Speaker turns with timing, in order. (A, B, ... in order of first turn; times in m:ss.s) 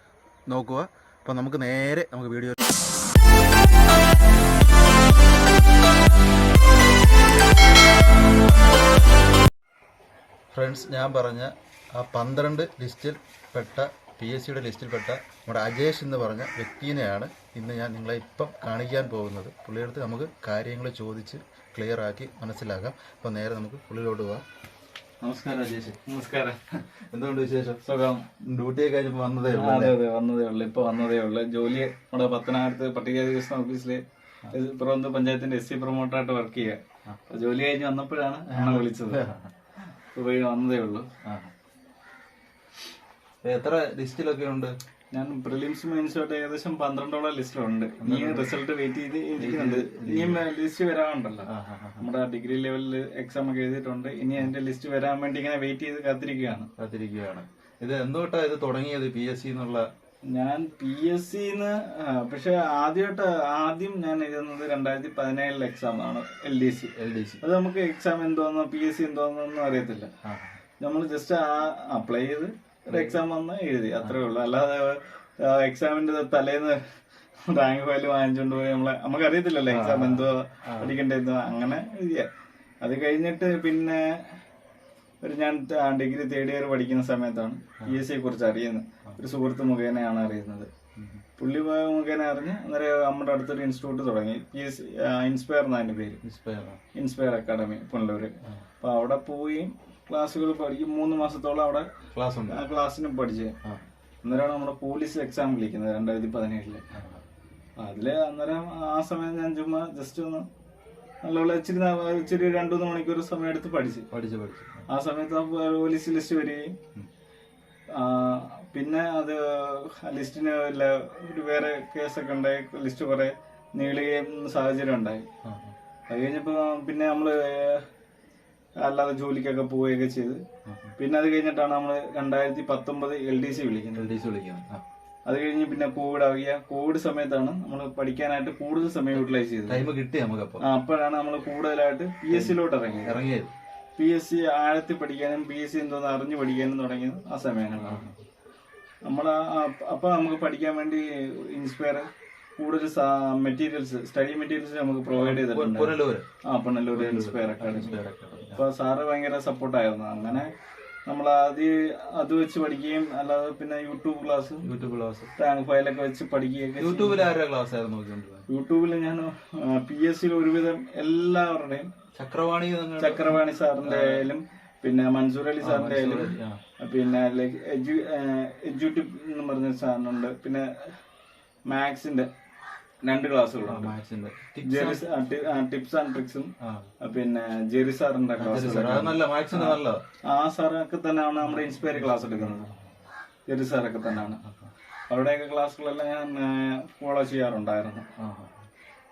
0:00.5-0:02.7 A
0:10.5-0:24.4 A
0:25.2-0:26.0 A
0:26.0-0:26.6 B
0:27.0-0:27.8 A
0:27.8-0:28.3 B
0:28.5-0:30.0 A
0:29.5-0:39.2 B
0:38.5-0:39.5 A
0:40.1-0:41.1 B
0:41.2-0:41.5 A
0:43.4-0:44.8 A
0:45.1-0:51.5 B
0:48.0-0:48.6 A
0:49.4-0:50.4 A
0:51.5-0:52.0 A
0:52.0-0:56.7 B
0:56.8-0:59.8 A
1:00.3-1:10.1 B
1:07.0-1:07.4 A
1:10.2-1:10.6 A
1:10.8-1:16.8 B
1:12.9-1:13.2 A
1:17.5-1:22.3 B
1:19.7-1:21.0 A
1:22.8-1:24.0 B
1:25.2-1:30.7 B
1:31.0-1:31.2 A
1:31.4-1:36.2 B
1:36.2-1:36.8 A
1:36.9-1:41.9 B
1:42.1-1:42.6 A
1:42.5-1:43.6 B
1:44.2-1:46.8 B
1:46.9-1:47.2 A
1:47.8-1:50.4 B
1:51.2-1:54.1 B
1:54.1-1:54.8 A
1:54.9-1:56.7 B
1:57.9-2:05.2 B
2:05.4-2:05.7 A
2:06.1-2:07.8 B
2:08.8-2:10.4 B
2:10.7-2:10.9 A
2:11.0-2:14.1 B
2:14.0-2:14.8 A
2:15.2-2:19.8 B
2:19.7-2:20.6 A
2:20.6-2:23.2 B
2:22.3-2:23.5 A
2:24.0-2:28.1 B
2:27.8-2:28.2 A
2:29.1-2:40.5 B
2:35.1-2:36.2 A
2:36.9-2:38.6 A
2:41.1-2:44.6 B
2:44.6-2:45.3 A
2:45.4-2:47.3 B
2:46.8-2:48.5 A
2:48.5-2:51.9 B
2:52.2-2:54.3 A
2:53.0-3:01.0 B
2:55.6-2:56.6 A
3:01.7-3:02.3 B
3:03.0-3:04.0 B
3:03.7-3:05.0 A
3:04.6-3:12.7 B
3:06.6-3:06.9 A
3:08.4-3:10.0 A
3:11.4-3:12.8 A
3:13.5-3:14.4 B
3:14.1-3:14.7 A
3:15.1-3:18.1 B
3:18.2-3:18.7 A